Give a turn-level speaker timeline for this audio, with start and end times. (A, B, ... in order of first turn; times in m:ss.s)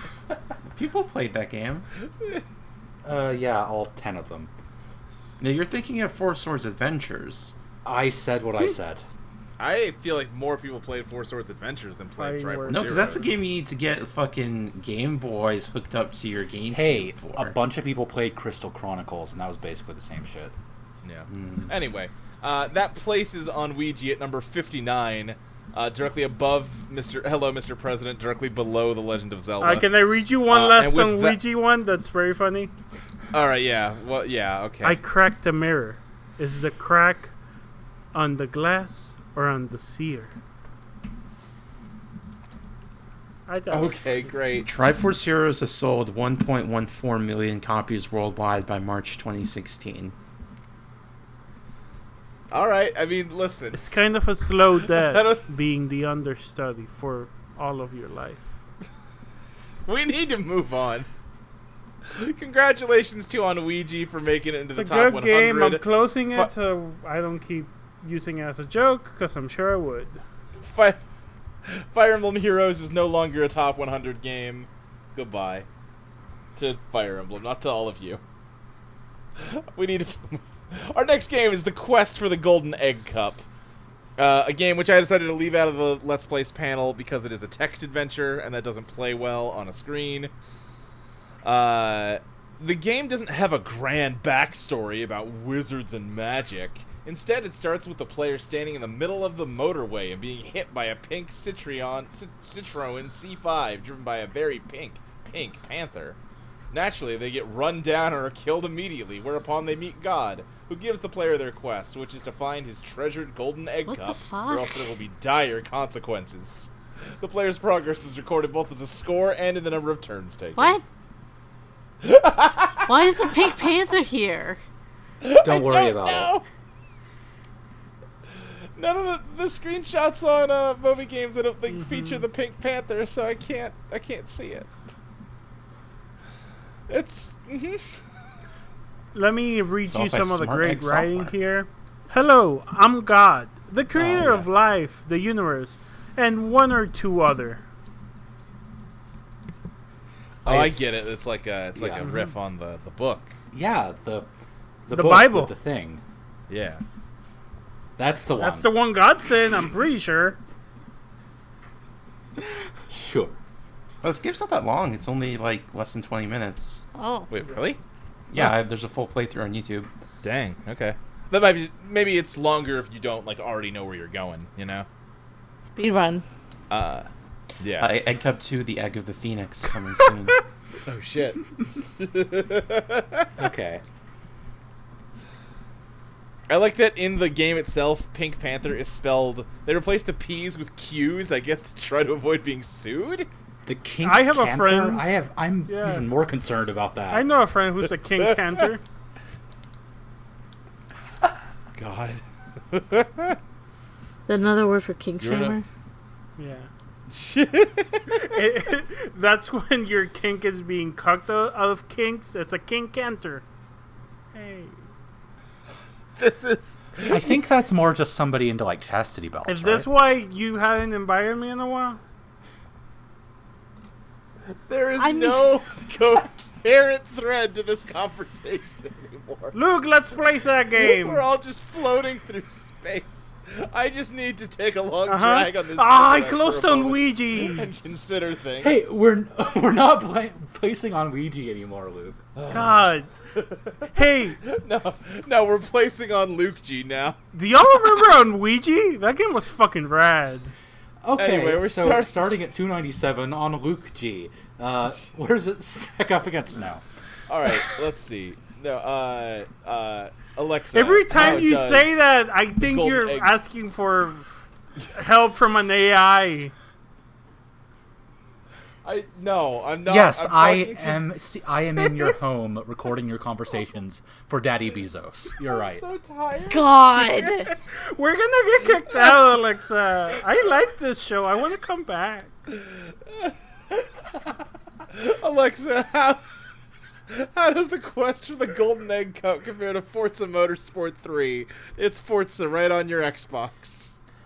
0:00.7-0:01.9 A
0:02.2-0:02.4 B
0:03.0-0:04.5 C
0:05.4-0:07.6 A
0:07.8-0:09.0 C
0:09.6-0:13.3 B
0:12.1-0:13.3 D
0:12.7-0:17.5 A
0:16.7-0:20.5 C
0:21.0-0:29.9 B
0:29.6-0:32.7 D
0:30.5-0:31.4 B
0:33.3-0:35.0 B
0:34.8-0:37.3 D
0:38.1-0:40.3 D
0:43.5-0:44.0 D
0:43.7-0:44.7 B
0:44.6-0:50.1 A
0:52.5-0:53.8 B
0:53.7-0:58.5 D
0:55.0-0:55.4 B
0:59.9-1:01.1 B
1:02.1-1:06.5 B
1:04.7-1:10.2 D
1:10.6-1:11.0 B
1:11.7-1:15.7 B
1:16.6-1:18.2 B
1:19.4-1:23.4 B
1:24.2-1:30.3 B
1:31.4-1:46.2 B
1:46.7-2:00.8 B
1:53.9-1:54.9 E
2:00.6-2:00.8 E
2:02.0-2:03.3 B
2:02.9-2:04.6 E
2:05.2-2:06.4 B
2:05.4-2:06.3 C
2:08.8-2:14.7 B
2:11.7-2:12.3 D
2:16.9-2:17.9 B
2:19.1-2:27.6 D
2:19.9-2:21.3 A
2:23.9-2:24.5 C
2:30.4-2:31.2 C
2:30.4-2:33.4 B
2:31.8-2:32.2 C
2:33.5-2:34.3 C
2:34.9-2:36.0 C
2:34.9-2:35.5 D
2:36.5-2:36.8 B
2:38.0-2:38.7 C
2:38.4-2:40.4 D
2:42.9-2:43.4 C
2:44.0-2:46.8 A
2:47.0-2:47.3 E
2:47.3-2:47.8 B
2:48.3-2:49.9 A
2:50.2-2:54.9 B
2:55.7-2:56.2 E
2:56.7-2:57.1 B
2:57.6-2:57.9 B
2:57.8-3:00.4 A
3:00.9-3:03.3 B
3:03.4-3:03.8 C
3:06.5-3:13.3 B
3:13.7-3:17.4 C
3:14.0-3:15.1 D
3:15.7-3:16.1 D
3:17.1-3:18.8 D
3:21.8-3:23.4 B
3:24.3-3:25.6 E
3:25.2-3:25.6 B
3:26.4-3:26.7 D
3:27.1-3:28.3 B
3:28.2-3:33.4 D
3:34.3-3:34.8 D
3:36.2-3:37.3 B
3:37.1-3:39.9 C
3:39.5-3:42.0 D
3:44.7-3:49.6 B
3:45.0-3:45.5 E
3:49.5-3:51.2 D
3:50.8-3:58.8 B
3:55.1-3:57.7 D
3:58.6-4:02.2 C
4:02.4-4:07.2 B
4:02.5-4:03.1 D
4:03.9-4:04.4 D
4:07.3-4:10.5 D
4:11.0-4:16.8 C
4:11.2-4:12.3 B
4:17.3-4:22.0 B
4:20.7-4:24.3 D
4:21.1-4:21.5 C
4:22.6-4:23.3 B
4:24.8-4:26.5 D
4:28.8-4:31.0 B
4:29.9-4:35.8 C
4:35.4-4:37.5 B
4:36.5-4:37.5 E
4:37.7-4:42.3 D
4:42.5-4:43.8 B
4:44.9-4:46.2 B
4:47.1-4:54.0 B